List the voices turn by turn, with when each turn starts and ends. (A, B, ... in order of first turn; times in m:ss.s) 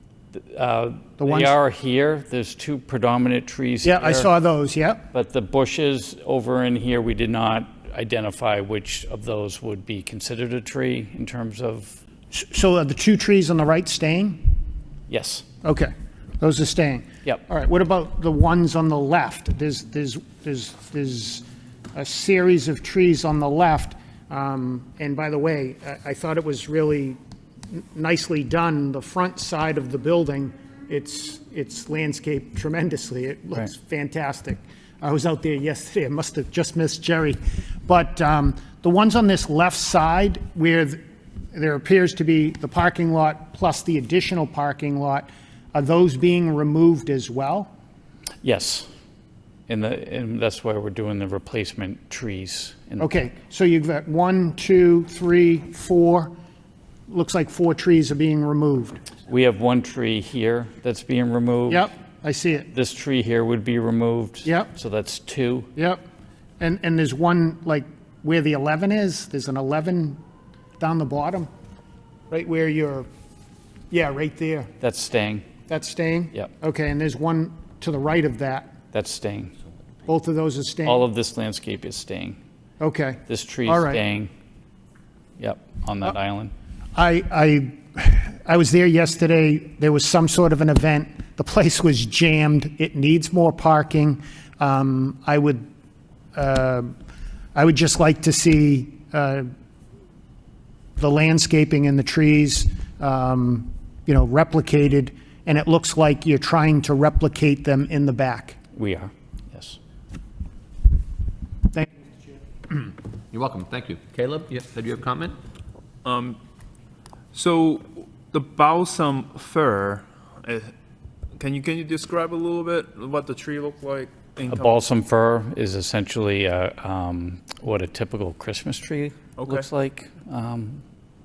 0:00.3-0:04.3 A
0:01.2-0:01.5 B
0:03.8-0:05.0 B
0:05.1-0:12.0 A
0:12.3-0:14.5 B
0:15.1-0:15.4 A
0:15.6-0:27.2 B
0:27.7-0:41.0 B
0:41.5-0:47.7 B
0:48.4-0:48.9 A
0:49.7-0:53.1 A
0:53.0-0:56.3 B
0:57.1-0:59.0 B
0:59.3-1:01.9 A
1:01.7-1:02.7 B
1:02.7-1:05.7 A
1:04.4-1:04.7 B
1:06.6-1:10.2 B
1:10.8-1:11.5 B
1:12.3-1:13.1 B
1:13.9-1:14.7 B
1:14.8-1:15.5 A
1:15.7-1:18.7 B
1:18.9-1:19.5 A
1:20.0-1:21.0 B
1:20.8-1:22.4 A
1:22.8-1:24.0 B
1:23.3-1:24.3 A
1:25.4-1:26.5 A
1:26.9-1:35.6 B
1:36.3-1:36.9 B
1:37.5-1:39.5 B
1:41.0-1:48.6 B
1:48.7-1:49.8 A
1:53.3-1:55.4 C
1:56.0-1:56.4 D
1:57.3-2:00.7 D
2:01.4-2:04.8 D
2:04.5-2:10.8 A
2:09.4-2:09.7 D